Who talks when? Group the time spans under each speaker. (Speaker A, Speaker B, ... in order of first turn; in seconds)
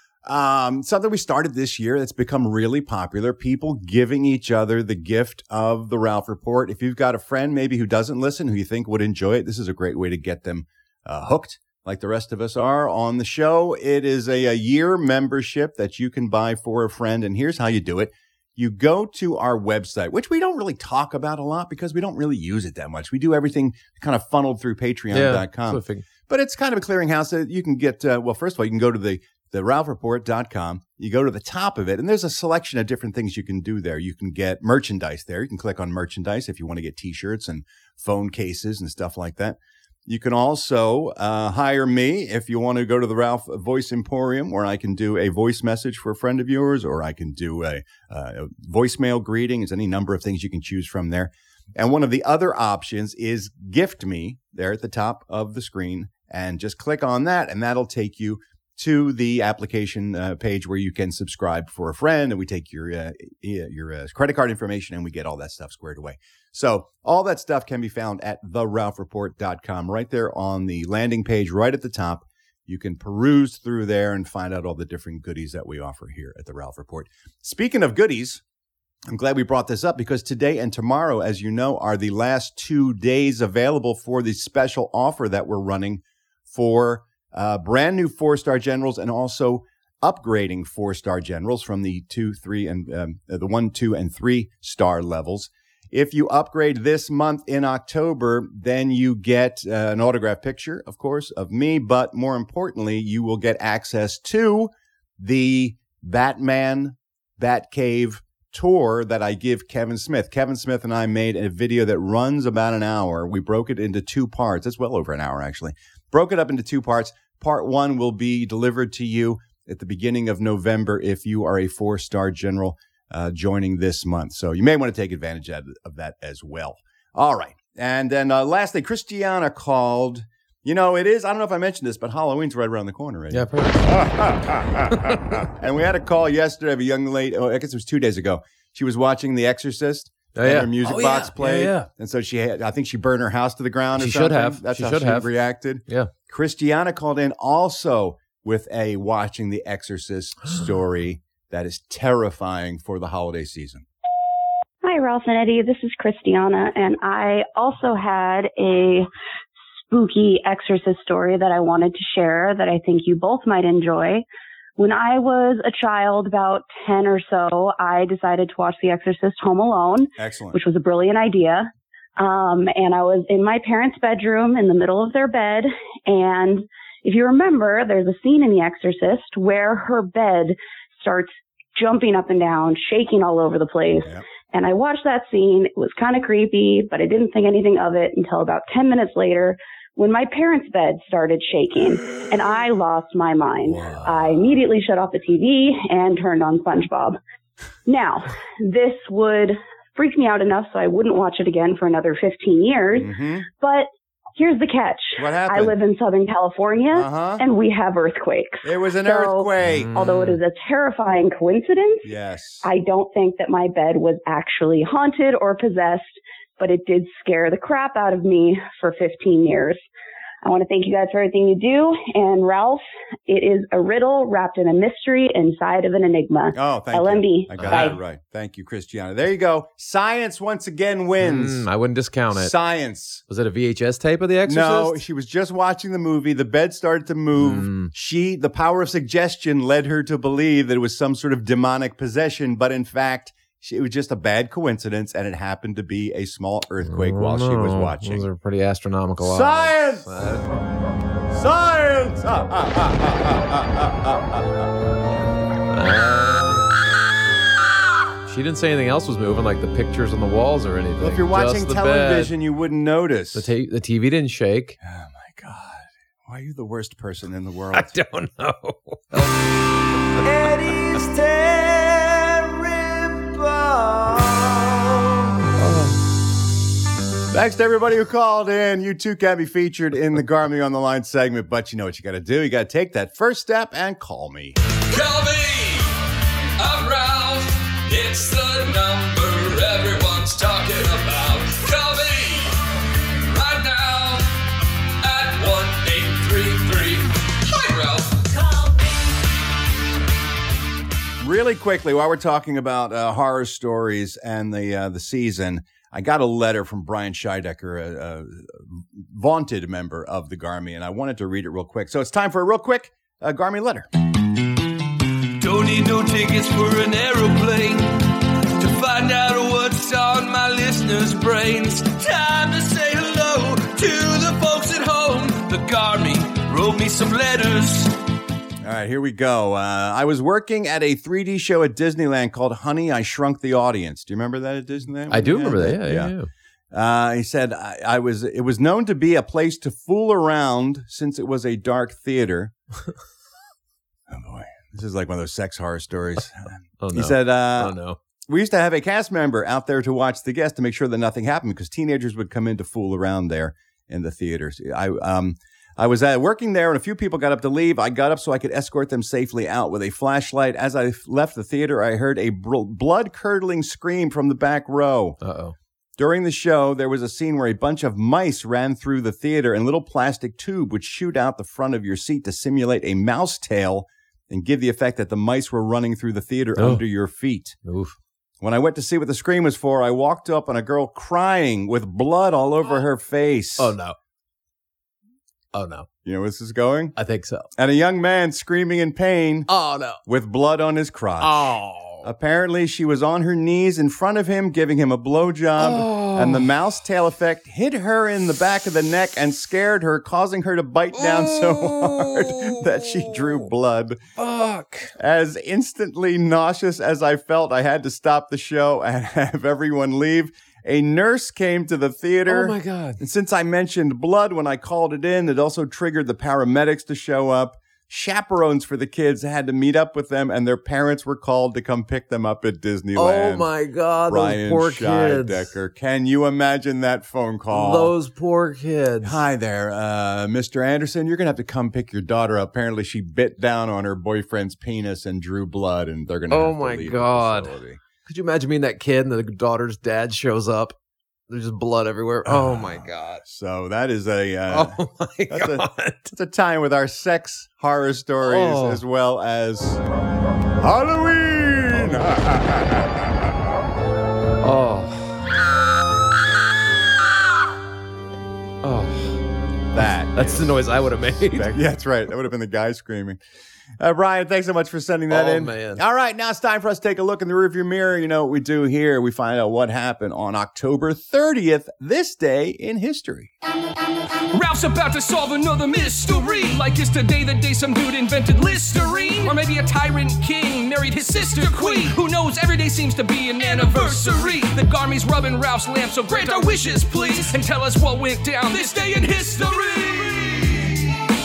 Speaker A: 0.2-78.4, 79.1-153.8, 170.2-170.6, 193.8-194.1, 202.9-203.5, 205.2-205.8, 206.9-207.4, 208.6-209.9, 212.0-212.6, 226.5-231.7, 232.3-233.2, 234.4-248.3, 249.2-250.1, 251.3-254.7, 261.0-263.5, 264.8-267.9, 270.2-275.2, 277.3-284.6, 301.2-313.9, 328.6-336.1, 336.7-342.5, 344.1-347.8, 348.3-365.2, 366.0-377.6, 378.4-383.7, 386.1-386.9, 387.6-389.5, 390.1-404.0, 405.0-423.5, 424.1-427.9, 429.0-437.8, 442.3-444.8, 445.3-449.8, 450.6-453.0, 459.7-463.2, 463.8-473.3
Speaker B: 25.1-26.1, 133.3-134.1, 134.9-135.4, 140.3-141.9, 144.0-145.3, 145.9-146.1, 209.6-210.4, 227.6-228.0, 231.2-232.5, 233.3-235.0, 237.4-237.9, 246.8-250.5, 255.7-256.7, 258.3-262.3, 263.4-264.8, 267.7-269.4, 275.6-276.0, 335.1-336.3, 346.8-348.0, 365.2-365.6, 376.6-376.8, 377.6-377.9, 383.6-383.9, 385.5-385.9, 386.9-387.5, 389.5-390.0, 391.2-392.1, 395.6-396.5, 400.9-403.4, 404.2-404.9, 412.3-413.0, 422.9-425.5, 427.5-429.2, 436.3-440.8, 441.3-443.2, 444.5-446.1, 448.2-448.8, 451.7-452.1, 454.4-455.2, 458.6-459.2, 460.1-461.6, 465.1-465.8
Speaker C: 154.8-159.1, 159.9-164.2, 164.8-197.2, 197.9-212.1, 212.6-219.8, 220.4-228.0
Speaker D: 284.9-286.0, 286.6-292.6, 293.2-294.4, 295.0-298.3, 315.4-327.9, 474.3-490.8